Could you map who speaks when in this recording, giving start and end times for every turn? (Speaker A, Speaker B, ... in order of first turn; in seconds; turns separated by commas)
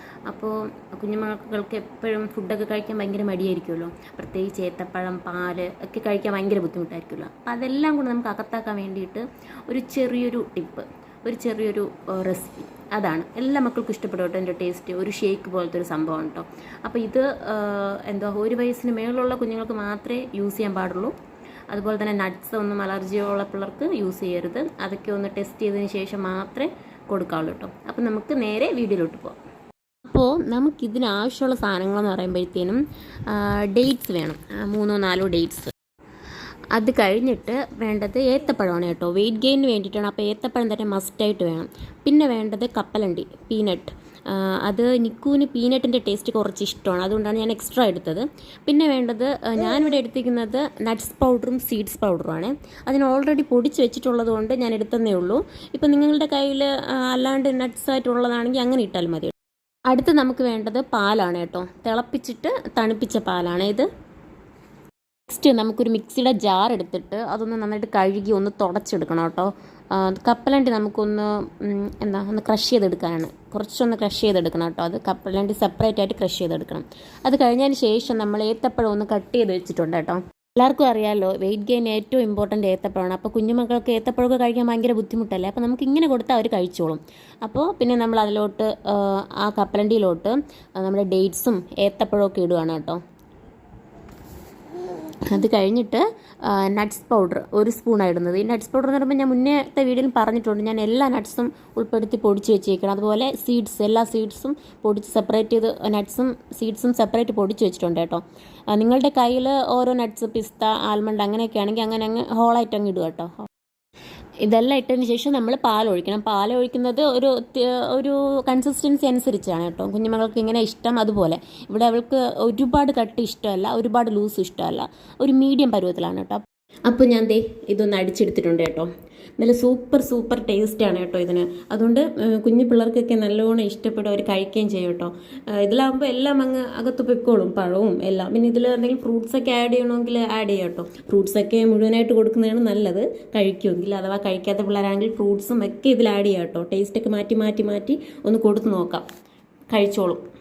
Speaker A: 0.3-21.1, Speaker A: 21.7-29.4, Speaker A: 30.1-35.7, Speaker A: 36.7-59.3, Speaker A: 59.9-63.9, Speaker A: 65.3-93.0, Speaker A: 95.3-113.5, Speaker A: 114.4-149.1, Speaker A: 149.7-150.2